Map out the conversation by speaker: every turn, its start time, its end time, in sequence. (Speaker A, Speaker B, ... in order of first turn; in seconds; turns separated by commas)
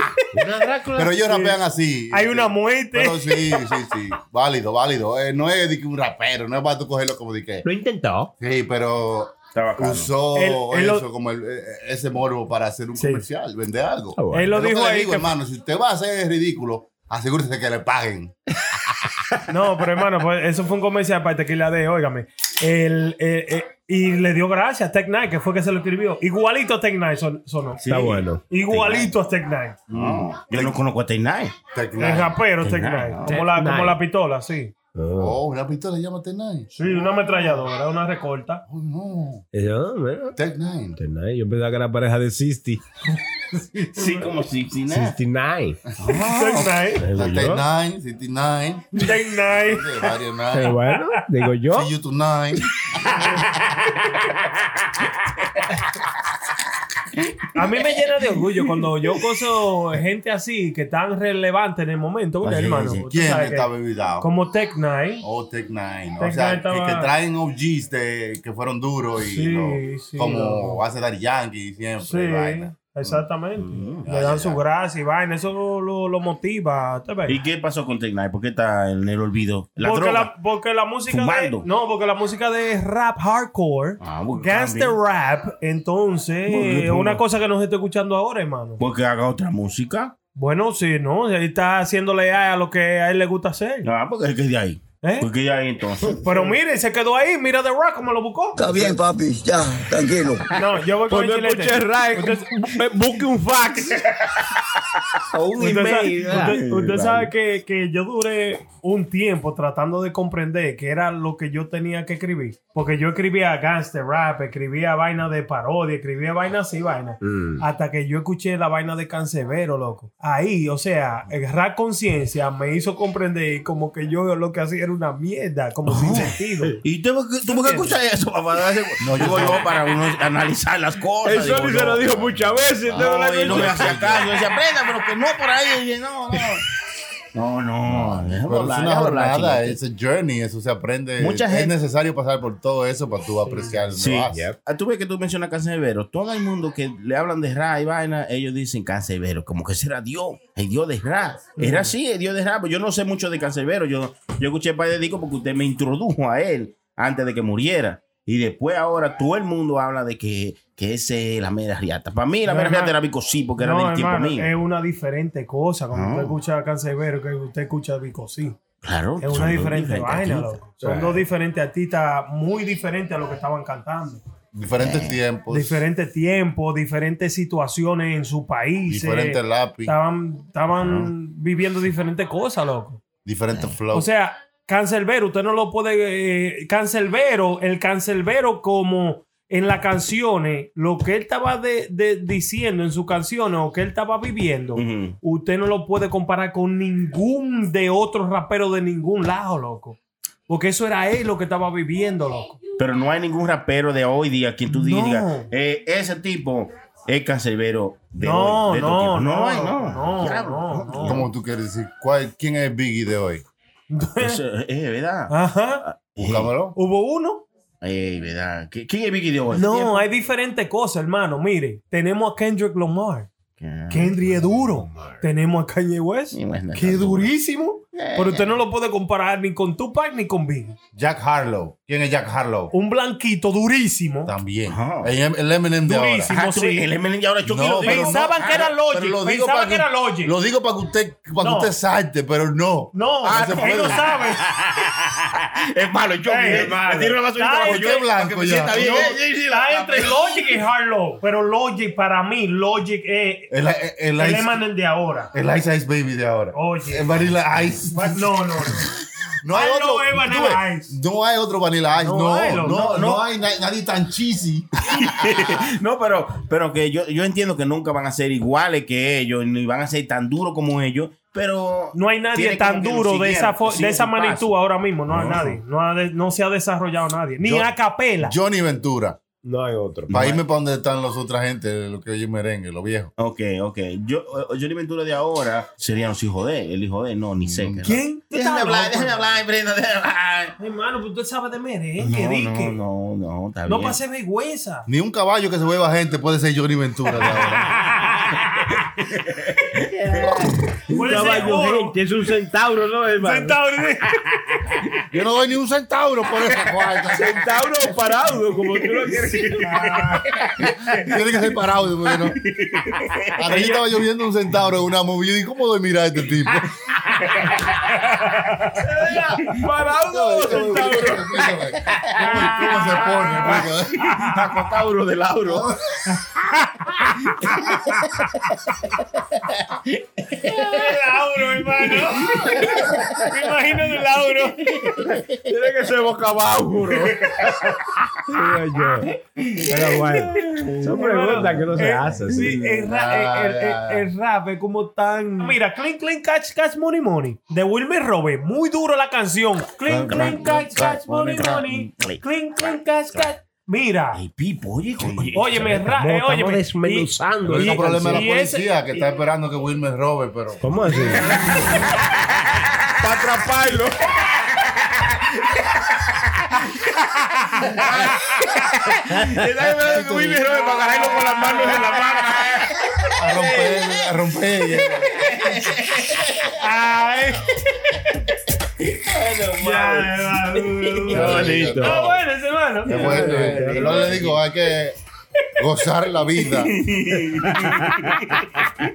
Speaker A: 0.3-1.2, Speaker B: 0.9-7.7, Speaker C: 1.3-1.6, Speaker C: 2.1-3.8, Speaker A: 7.6-8.3, Speaker B: 8.4-18.3, Speaker D: 9.5-10.1, Speaker C: 10.3-11.1, Speaker C: 13.0-13.2, Speaker A: 14.2-14.6, Speaker C: 14.3-15.3, Speaker C: 19.5-27.8, Speaker D: 27.8-29.1, Speaker A: 27.8-28.4, Speaker C: 28.5-29.8, Speaker B: 29.9-30.7, Speaker D: 29.9-31.6, Speaker B: 31.7-32.4, Speaker C: 32.0-34.7, Speaker D: 32.6-33.4, Speaker A: 33.3-34.0, Speaker A: 35.0-35.4, Speaker B: 35.2-36.9, Speaker C: 36.8-38.6, Speaker B: 38.7-39.5, Speaker A: 39.5-40.4, Speaker B: 40.4-41.0, Speaker A: 41.0-42.8, Speaker D: 44.0-45.2, Speaker C: 44.0-44.2, Speaker A: 44.9-45.8, Speaker B: 46.0-50.7, Speaker C: 46.1-47.0, Speaker A: 47.0-47.6, Speaker C: 49.0-50.1, Speaker A: 50.5-51.9, Speaker C: 50.8-51.1, Speaker B: 51.7-52.8, Speaker C: 57.5-63.7, Speaker D: 62.4-63.0, Speaker B: 63.1-64.3, Speaker C: 64.2-65.2, Speaker B: 65.2-73.2, Speaker C: 66.2-67.1, Speaker C: 69.2-70.8, Speaker C: 72.0-77.4, Speaker D: 73.6-74.0, Speaker B: 74.0-74.6, Speaker D: 77.3-80.3, Speaker C: 79.8-88.8, Speaker D: 81.1-81.7, Speaker D: 84.0-85.0, Speaker D: 86.5-87.2, Speaker D: 88.8-90.1, Speaker C: 90.4-93.9, Speaker D: 93.8-96.5, Speaker C: 95.0-95.3, Speaker C: 96.2-98.9, Speaker C: 100.5-102.5, Speaker A: 101.1-104.0, Speaker A: 105.3-106.9, Speaker C: 105.6-126.8, Speaker D: 106.3-107.3, Speaker A: 117.2-117.6, Speaker D: 125.9-136.7, Speaker C: 127.5-128.0, Speaker B: 129.0-129.7, Speaker A: 131.2-134.3, Speaker B: 132.9-134.3, Speaker D: 137.3-139.8, Speaker B: 137.9-144.4, Speaker D: 141.2-141.7, Speaker C: 143.5-143.8, Speaker D: 143.9-164.5, Speaker A: 144.3-144.6, Speaker C: 151.6-151.9, Speaker C: 162.5-162.9, Speaker C: 163.6-168.6, Speaker D: 165.9-166.4, Speaker D: 168.8-170.6, Speaker C: 169.2-174.2, Speaker A: 170.8-171.2, Speaker B: 174.5-175.8, Speaker D: 174.8-175.2, Speaker C: 175.5-183.0, Speaker B: 178.9-179.9, Speaker D: 180.8-181.1, Speaker B: 183.2-184.1, Speaker C: 183.9-200.0, Speaker D: 194.8-195.2, Speaker C: 200.5-202.6, Speaker D: 202.8-211.2, Speaker C: 204.7-205.5, Speaker C: 208.2-211.3, Speaker B: 211.0-213.4, Speaker C: 213.9-214.4, Speaker D: 214.2-216.5, Speaker C: 215.3-215.8, Speaker B: 216.2-216.8, Speaker C: 216.8-217.4, Speaker D: 217.8-220.1, Speaker C: 219.5-223.3, Speaker D: 223.6-225.1, Speaker C: 223.9-230.8, Speaker D: 226.3-227.3, Speaker D: 227.9-228.6, Speaker B: 230.9-232.7, Speaker C: 232.7-234.3, Speaker B: 234.3-236.3, Speaker D: 234.7-235.1, Speaker C: 235.8-236.9, Speaker D: 236.3-238.7, Speaker B: 237.5-244.0, Speaker C: 237.8-240.3, Speaker C: 241.4-241.7, Speaker C: 242.9-244.4, Speaker D: 243.2-250.6, Speaker C: 246.2-248.1, Speaker B: 247.6-249.2, Speaker C: 248.7-253.5, Speaker B: 253.5-254.6, Speaker C: 254.2-255.3, Speaker B: 255.3-258.3, Speaker C: 256.5-257.1, Speaker C: 257.9-258.9, Speaker B: 259.4-265.5, Speaker C: 259.5-260.9, Speaker C: 262.0-263.2, Speaker D: 264.9-274.6, Speaker C: 271.9-278.3, Speaker D: 275.1-275.6, Speaker B: 277.4-279.2, Speaker A: 279.4-280.1, Speaker D: 280.1-280.4, Speaker B: 280.1-283.1, Speaker D: 283.2-290.6, Speaker B: 287.4-287.8, Speaker C: 287.8-289.4, Speaker C: 290.6-292.8, Speaker D: 292.0-294.0, Speaker C: 293.7-294.9, Speaker B: 294.9-297.7, Speaker C: 297.8-298.4, Speaker D: 299.3-299.6, Speaker A: 299.8-303.6, Speaker C: 300.9-302.0, Speaker C: 303.2-304.2, Speaker B: 305.1-307.5, Speaker A: 307.1-310.2, Speaker D: 308.8-311.0, Speaker B: 311.0-312.4, Speaker D: 312.1-313.4, Speaker B: 313.4-316.7, Speaker D: 317.3-317.9, Speaker C: 318.1-319.6, Speaker A: 319.0-321.4, Speaker B: 320.1-324.1, Speaker C: 320.4-320.8, Speaker C: 322.2-324.5, Speaker D: 323.5-325.7, Speaker B: 325.5-326.0, Speaker C: 326.1-327.1, Speaker C: 330.5-334.9, Speaker A: 335.4-337.8, Speaker A: 338.3-342.6, Speaker D: 339.5-339.7, Speaker C: 340.8-354.2, Speaker B: 342.8-344.1, Speaker B: 349.9-351.9, Speaker D: 350.0-350.6, Speaker D: 352.0-353.3, Speaker D: 354.1-355.9, Speaker C: 355.4-358.8, Speaker A: 355.8-358.3, Speaker B: 357.4-361.5, Speaker A: 360.6-361.7, Speaker D: 360.9-362.9, Speaker A: 363.0-363.9, Speaker D: 365.0-366.6, Speaker D: 367.7-373.9, Speaker A: 370.0-370.4, Speaker C: 370.6-372.1, Speaker B: 373.2-375.3, Speaker C: 373.3-373.6, Speaker D: 375.1-376.6, Speaker C: 376.6-377.5, Speaker D: 378.8-381.9, Speaker C: 379.6-384.2, Speaker B: 381.1-382.2, Speaker A: 381.2-382.0, Speaker B: 382.9-385.0, Speaker D: 382.9-384.4, Speaker A: 382.9-383.8, Speaker B: 385.6-386.8, Speaker D: 386.4-388.4, Speaker A: 387.5-388.3